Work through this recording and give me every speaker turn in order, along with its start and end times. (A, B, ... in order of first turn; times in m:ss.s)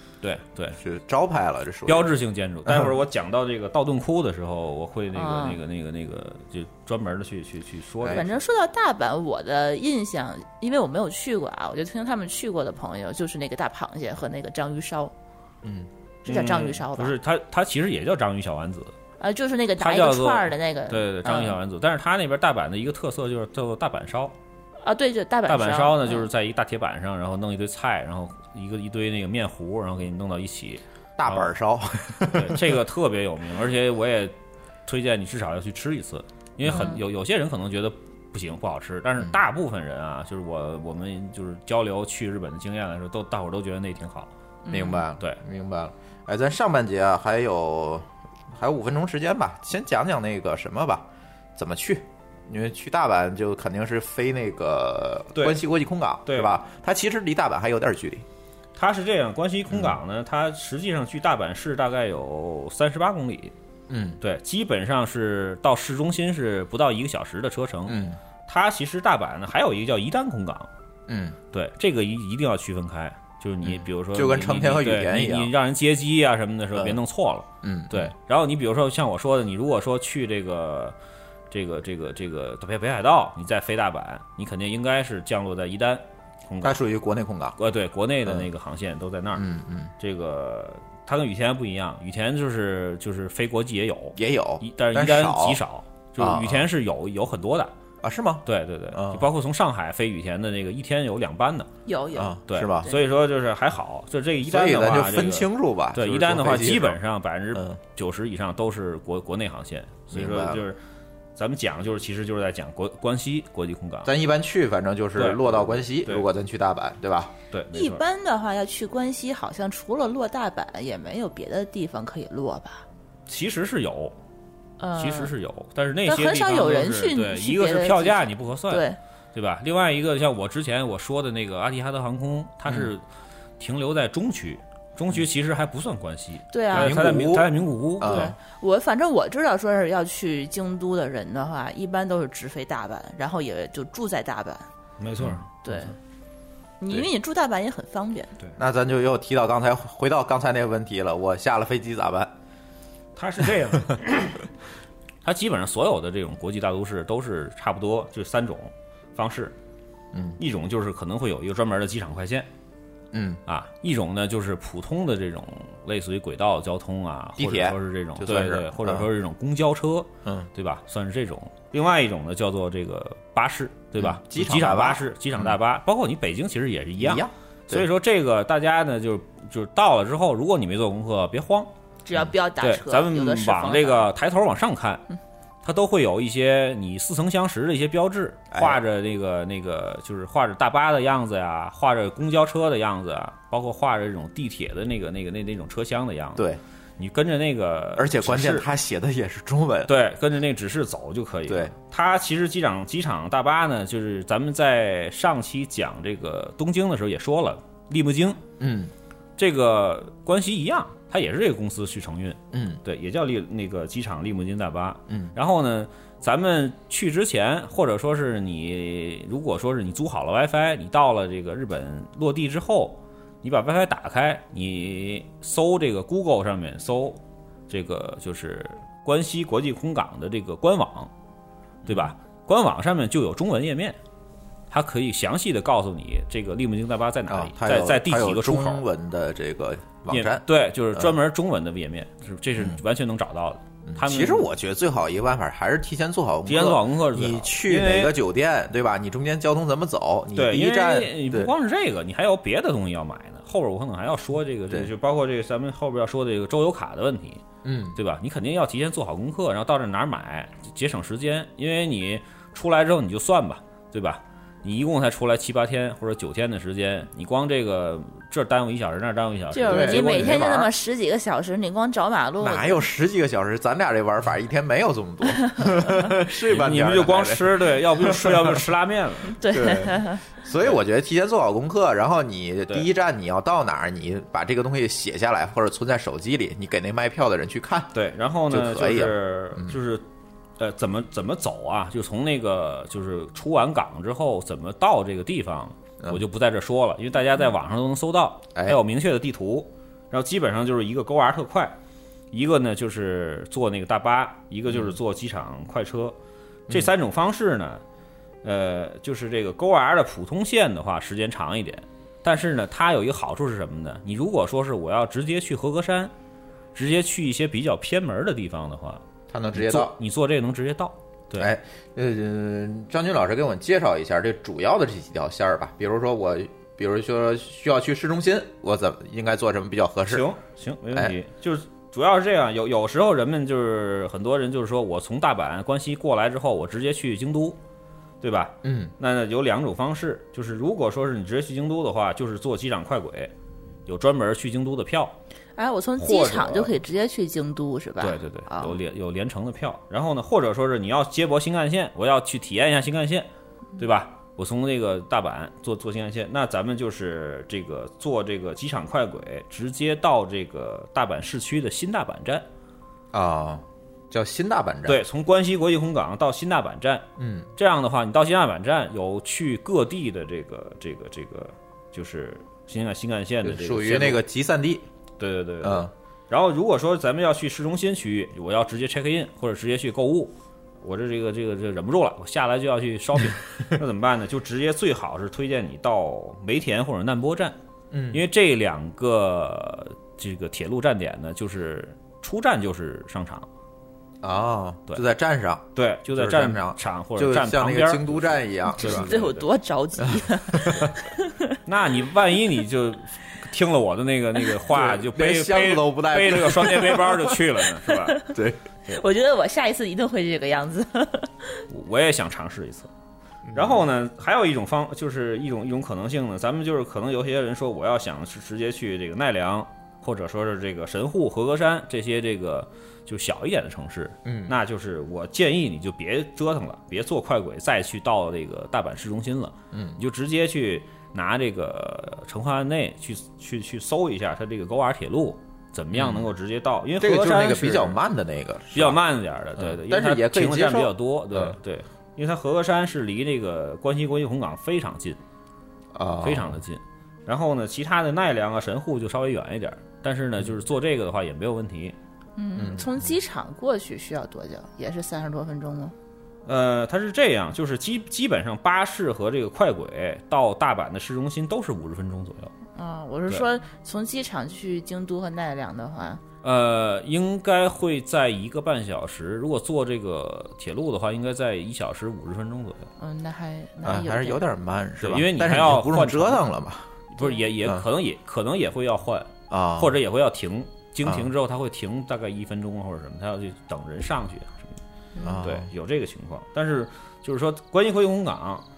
0:00.2-0:00.8 A
0:00.8-0:02.1 B
0:01.8-0:08.3 A
0:02.6-0:02.9 B
0:05.1-0:05.6 C
0:08.1-0:15.1 C
0:15.6-0:15.9 B
0:16.2-0:17.1 C
0:16.2-0:18.9 A
0:19.2-0:21.5 C
0:19.8-0:24.3 A
0:24.8-0:26.2 C
0:25.5-0:31.5 A
0:31.2-0:32.8 B
0:32.3-0:34.3 A
0:34.8-0:44.3 A
0:36.7-0:37.0 C
0:44.6-0:45.0 C
0:44.7-0:58.2 B
0:55.3-0:55.6 A
0:56.2-0:56.6 A
0:58.8-1:03.5 A
0:59.7-1:00.0 B
1:03.9-1:04.2 B
1:04.2-1:10.7 A
1:07.9-1:08.2 B
1:11.1-1:11.4 B
1:11.5-1:21.0 A
1:13.6-1:15.5 B
1:17.6-1:18.1 B
1:21.5-1:26.8 A
1:26.6-1:27.6 B
1:27.6-1:29.4 A
1:29.3-1:29.9 B
1:30.0-1:37.7 A
1:34.2-1:35.6 B
1:36.2-1:36.6 B
1:38.0-1:39.3 B
1:38.4-1:41.7 A
1:41.8-1:43.0 C
1:42.1-1:42.9 B
1:42.5-1:50.8 A
1:44.4-1:47.0 B
1:50.1-1:50.6 B
1:51.4-1:54.1 A
1:54.0-1:57.3 B
1:55.2-1:56.3 A
1:57.5-1:58.0 A
1:57.7-2:02.8 C
2:03.3-2:04.1 A
2:04.8-2:05.3 C
2:05.0-2:13.0 A
2:06.0-2:09.0 C
2:13.6-2:18.3 A
2:16.5-2:17.0 C
2:16.7-2:18.4 B
2:18.0-2:24.7 C
2:25.0-2:25.9 A
2:25.6-2:25.9 C
2:26.8-2:28.3 C
2:28.6-2:32.3 B
2:33.2-2:34.4 A
2:35.2-2:39.5 A
2:40.1-2:40.4 B
2:40.4-2:42.5 A
2:43.1-2:43.4 B
2:43.5-3:01.7 A
2:47.4-2:49.1 B
2:54.0-2:55.6 B
2:57.0-2:57.9 B
3:02.0-3:04.1 C
3:02.6-3:05.0 A
3:05.6-3:16.5 A
3:08.5-3:08.8 B
3:17.0-3:18.7 A
3:18.0-3:19.9 B
3:19.9-3:28.4 A
3:21.5-3:21.7 B
3:28.6-3:28.9 B
3:29.4-3:51.1 A
3:32.5-3:32.8 B
3:51.8-3:54.0 A
3:51.9-3:52.1 B
3:54.7-3:58.8 A
3:57.3-4:00.4 B
4:00.1-4:04.5 A
4:03.8-4:11.5 B
4:06.4-4:08.1 A
4:10.3-4:17.4 A
4:17.6-4:18.0 B
4:17.9-4:30.6 A
4:29.5-4:32.8 C
4:29.7-4:30.7 B
4:32.4-4:38.6 B
4:36.3-4:39.4 A
4:39.4-4:40.2 C
4:39.5-4:47.9 B
4:47.9-4:50.0 A
4:48.5-4:49.8 B
4:50.6-5:01.7 A
5:02.3-5:06.2 A
5:04.7-5:04.9 B
5:06.7-5:07.8 A
5:08.4-5:16.1 A
5:16.7-5:19.0 A
5:19.3-5:20.0 B
5:19.5-5:21.5 A
5:21.4-5:30.2 B
5:30.1-5:37.6 A
5:38.2-5:43.3 A
5:38.6-5:38.9 B
5:43.8-5:45.2 A
5:45.6-5:48.8 C
5:46.0-5:46.7 A
5:48.0-5:53.3 A
5:53.8-6:02.4 A
6:03.1-6:05.0 B
6:04.8-6:07.0 A
6:07.2-6:07.5 B
6:07.6-6:14.2 A
6:13.4-6:14.8 B
6:15.2-6:27.6 A
6:15.6-6:15.9 B
6:27.9-6:28.2 B
6:28.1-6:33.5 A
6:34.2-6:39.1 B
6:35.7-6:39.5 A
6:38.7-6:41.5 C
6:40.2-6:40.9 B
6:41.6-6:48.2 A
6:44.7-6:47.4 B
6:47.9-6:48.2 C
6:48.3-6:48.6 B
6:48.9-6:51.6 C
6:51.7-6:52.9 A
6:53.4-6:53.8 B
6:53.5-7:18.0 A
7:04.2-7:04.6 B
7:09.7-7:10.0 B
7:15.9-7:16.3 B
7:17.0-7:19.0 B
7:18.7-7:25.2 A
7:19.6-7:21.6 B
7:25.9-7:26.6 B
7:26.2-7:32.0 A
7:32.4-7:35.9 C
7:32.6-7:33.1 B
7:36.4-7:42.5 A
7:42.7-7:46.2 C
7:46.4-7:52.9 A
7:53.0-7:54.4 C
7:53.8-7:56.9 B
7:55.0-7:56.4 A
7:57.1-8:04.8 A
7:57.6-7:57.8 B
7:59.5-8:00.0 B
8:01.0-8:01.3 B
8:05.2-8:05.7 B
8:05.4-8:08.6 A